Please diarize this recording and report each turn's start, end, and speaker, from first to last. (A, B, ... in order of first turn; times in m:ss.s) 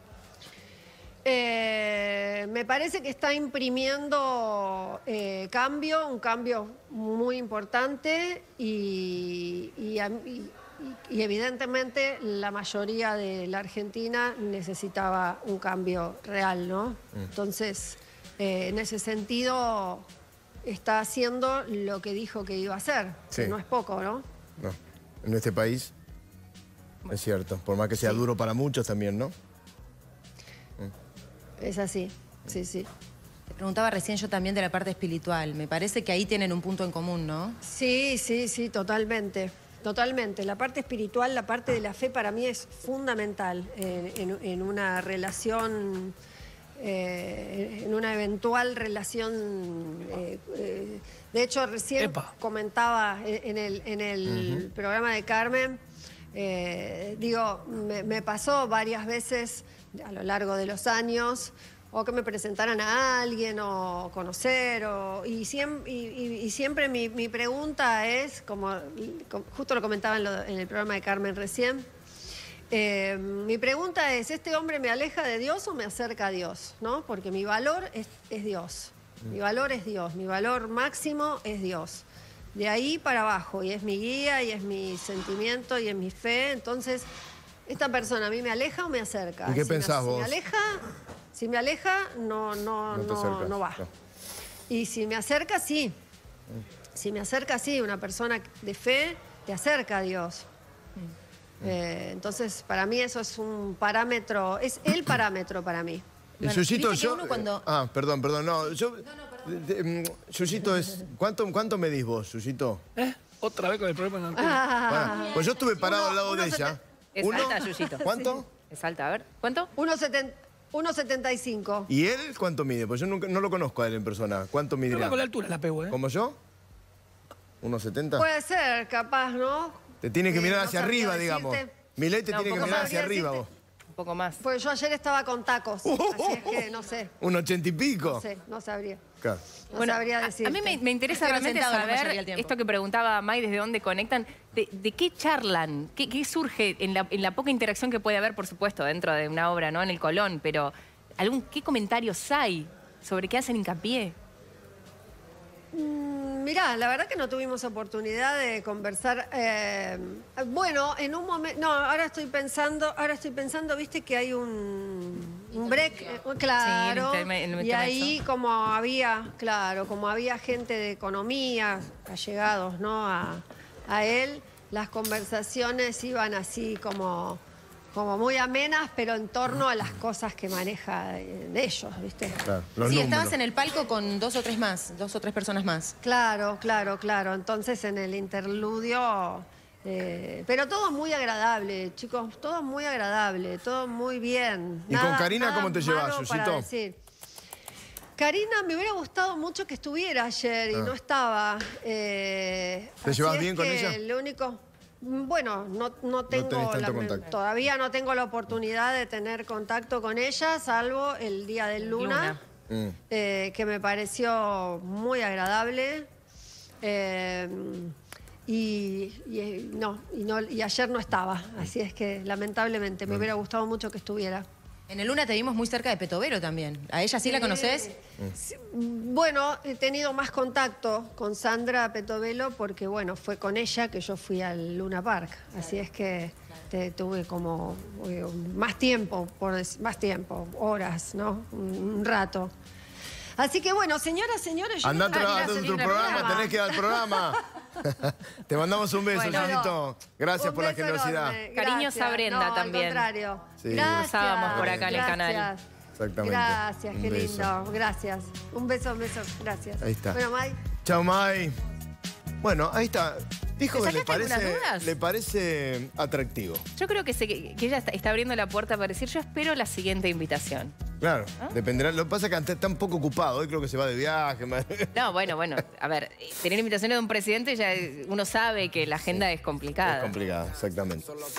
0:01.2-0:20.1 A
0:20.6-0:24.2 A
0:24.6-0:25.9 B
0:27.1-0:29.3 B
0:31.6-0:32.9 A
0:33.5-0:37.6 C
0:37.6-0:46.1 A
0:46.8-0:55.8 A
0:52.0-0:52.3 D
0:54.3-0:54.6 B
0:56.3-1:11.8 A
1:12.7-1:27.1 A
1:27.7-1:33.8 A
1:29.4-1:30.4 B
1:32.9-1:33.9 B
1:34.7-1:35.9 A
1:36.9-1:40.5 A
1:41.6-1:46.0 A
1:46.4-1:47.7 C
1:46.4-1:52.8 B
1:53.0-1:54.6 D
1:54.3-1:56.8 A
1:54.9-1:58.4 B
1:55.1-1:55.6 C
1:57.2-1:59.7 E
1:57.3-1:58.4 A
1:59.8-2:01.9 A
2:01.9-2:05.2 B
2:04.9-2:06.0 D
2:05.9-2:06.4 B
2:07.6-2:08.2 B
2:08.2-2:11.7 A
2:10.0-2:13.5 B
2:12.3-2:13.0 E
2:12.5-2:13.4 A
2:13.9-2:14.4 E
2:14.4-2:17.1 A
2:15.8-2:16.7 B
2:17.2-2:18.2 B
2:18.0-2:19.1 A
2:19.7-2:20.8 A
2:19.7-2:34.2 E
2:21.1-2:22.5 C
2:35.7-2:57.4 A
2:46.6-2:48.1 E
2:57.9-3:02.4 A
3:02.4-3:03.4 B
3:02.8-3:05.9 C
3:06.0-3:17.0 A
3:14.9-3:16.7 B
3:18.2-3:32.4 A
3:23.0-3:24.0 B
3:26.3-3:27.3 B
3:31.9-3:32.4 E
3:32.7-3:33.0 B
3:33.1-3:36.1 A
3:36.8-3:37.9 A
3:38.5-3:44.4 A
3:44.9-3:47.9 C
3:47.2-4:02.5 A
4:03.4-4:07.4 A
4:04.8-4:11.4 B
4:05.1-4:06.5 E
4:09.1-4:09.8 A
4:09.2-4:09.6 E
4:10.4-4:15.6 A
4:11.5-4:13.1 E
4:13.6-4:15.1 B
4:13.8-4:15.5 E
4:16.0-4:17.5 B
4:16.2-4:20.6 A
4:19.8-4:20.2 B
4:20.8-4:21.6 B
4:22.4-4:26.6 B
4:23.7-4:24.9 E
4:26.8-4:30.7 E
4:31.0-4:34.9 B
4:34.9-4:40.2 E
4:39.8-4:41.1 B